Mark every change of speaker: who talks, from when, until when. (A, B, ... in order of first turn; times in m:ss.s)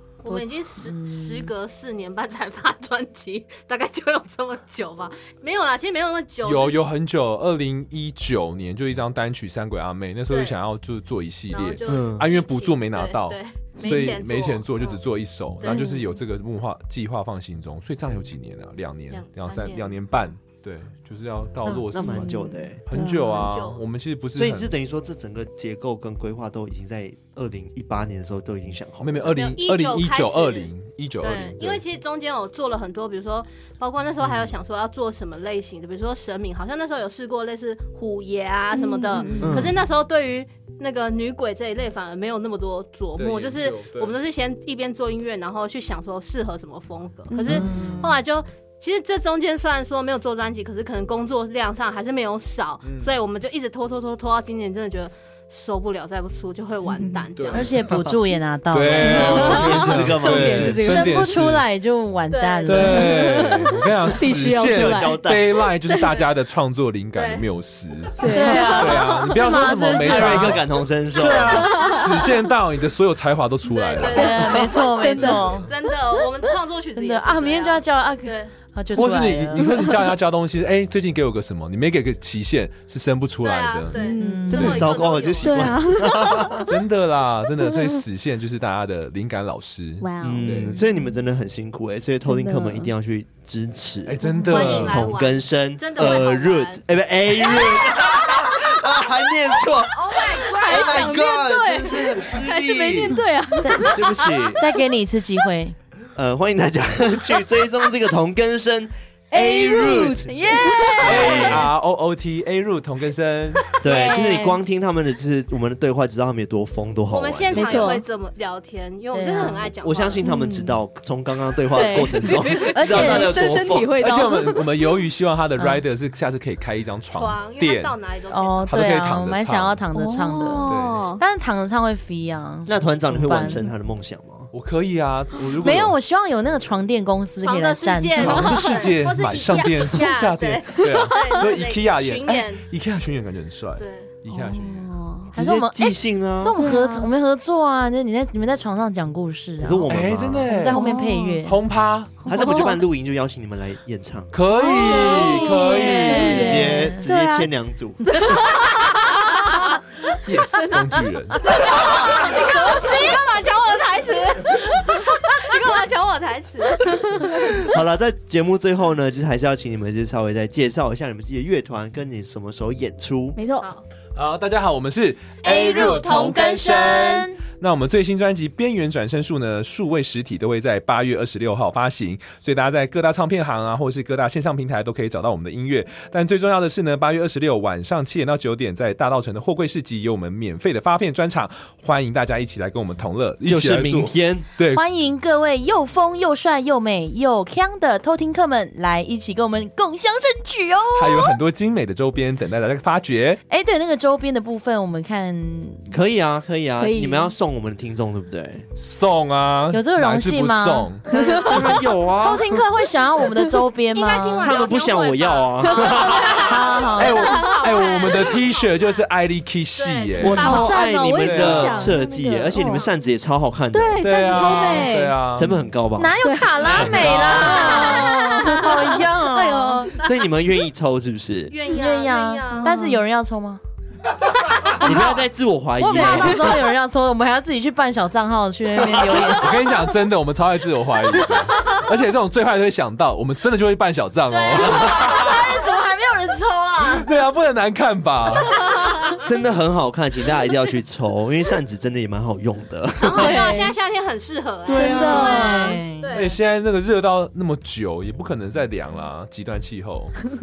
0:00.2-0:06.8 A
0:00.3-0:01.5 B
0:06.4-0:24.7 C
0:10.3-0:10.6 A
0:11.5-0:15.0 A
0:11.9-0:12.2 D
0:13.8-0:14.1 E
0:15.6-0:16.0 A
0:15.6-0:16.1 E
0:19.1-0:19.9 A
0:21.6-0:22.8 D
0:22.0-0:23.5 E
0:23.3-0:23.8 A
0:24.3-0:29.5 D
0:29.0-0:31.8 C
0:29.2-0:57.8 A
0:38.7-0:39.5 E
0:39.2-0:39.6 C
0:39.4-0:39.8 D
0:43.2-0:44.1 C
0:47.3-0:48.0 E
0:47.4-0:48.1 D
0:52.8-0:53.1 C
0:56.9-0:57.3 E
0:57.4-0:57.7 C
0:57.5-1:03.3 B
0:57.9-0:58.1 D
0:58.7-1:01.6 C
0:59.0-1:01.2 E
0:59.1-1:01.0 D
1:02.3-1:03.2 A
1:02.6-1:14.6 C
1:02.8-1:06.1 E
1:04.4-1:05.6 D
1:07.1-1:07.5 A
1:08.2-1:09.6 E
1:08.2-1:10.6 B
1:10.0-1:11.8 D
1:11.4-1:12.5 E
1:13.6-1:18.5 A
1:14.0-1:15.7 B
1:14.2-1:15.6 E
1:15.2-1:15.7 C
1:17.0-1:19.9 B
1:18.9-1:23.9 C
1:23.4-1:25.8 A
1:23.9-1:24.8 E
1:24.2-1:24.9 B
1:24.5-1:26.7 D
1:24.5-1:24.9 C
1:25.4-1:26.7 E
1:26.6-1:30.8 C
1:30.0-1:31.2 E
1:30.2-1:44.7 D
1:32.2-1:32.9 E
1:34.0-1:35.0 C
1:34.2-1:34.8 E
1:34.5-1:36.8 A
1:37.4-1:38.0 A
1:40.1-1:41.2 B
1:40.1-1:44.6 E
1:43.6-1:43.9 B
1:44.5-1:45.8 B
1:46.1-1:51.7 D
1:49.3-1:51.7 E
1:51.0-1:53.7 C
1:53.8-1:54.6 E
1:53.8-1:58.0 D
1:57.1-2:00.2 A
1:57.5-1:58.0 E
1:59.1-1:59.7 B
1:59.4-2:04.0 D
2:00.2-2:00.8 E
2:01.7-2:04.7 E
2:02.8-2:03.4 B
2:04.0-2:08.0 C
2:07.1-2:08.9 A
2:08.3-2:13.6 B
2:08.6-2:09.8 C
2:09.9-2:11.2 E
2:10.6-2:11.1 C
2:12.7-2:14.5 D
2:14.5-2:16.0 C
2:15.6-2:18.7 B
2:17.4-2:22.6 A
2:18.1-2:24.9 C
2:23.8-2:24.1 A
2:24.3-2:25.3 E
2:25.3-2:26.6 D
2:25.3-2:29.9 B
2:26.6-2:27.1 E
2:29.6-2:30.5 D
2:29.9-2:32.4 C
2:30.4-2:31.6 B
2:30.7-2:31.4 E
2:32.2-2:32.8 E
2:32.3-2:34.4 D
2:34.3-2:36.5 C
2:34.5-2:36.9 E
2:34.8-2:37.5 B
2:35.8-2:38.4 D
2:38.0-2:39.8 E
2:40.2-2:41.6 C
2:41.4-2:47.0 A
2:47.2-2:53.4 D
2:53.4-2:53.7 E
2:54.1-3:14.9 C
2:55.4-2:57.4 B
2:55.5-2:56.3 A
3:13.4-3:14.5 D
3:14.7-3:21.3 B
3:20.9-3:23.4 C
3:23.5-3:25.9 B
3:25.9-3:28.7 D
3:26.8-3:27.3 E
3:28.7-3:31.0 C
3:29.7-3:34.6 B
3:31.1-3:32.6 D
3:33.9-3:39.0 A
3:34.4-3:36.8 D
3:35.9-3:36.3 E
3:36.4-3:37.5 B
3:37.0-3:42.0 C
3:37.2-3:37.6 E
3:39.7-3:40.9 A
3:40.2-3:44.7 D
3:40.2-3:42.9 E
3:42.5-3:42.8 A
3:43.7-3:45.2 E
3:44.0-3:45.5 C
3:45.3-3:46.1 D
3:46.0-3:49.9 B
3:46.2-3:49.9 E
3:46.6-3:48.0 C
3:46.7-3:47.2 D
3:50.0-3:51.6 D
3:51.4-3:52.8 A
3:51.6-3:53.6 B
3:52.5-3:53.0 E
3:54.7-3:55.2 B
3:54.7-3:56.7 D
3:55.8-3:59.7 B
3:55.8-3:56.5 E
3:58.9-3:59.2 D
3:59.2-4:05.4 C
4:04.3-4:04.8 A
4:04.4-4:07.1 B
4:06.8-4:08.8 C
4:09.2-4:13.4 D
4:13.0-4:16.4 A
4:13.2-4:13.8 E
4:14.7-4:15.4 D
4:14.7-4:15.8 E
4:15.1-4:16.1 B
4:16.1-4:20.3 C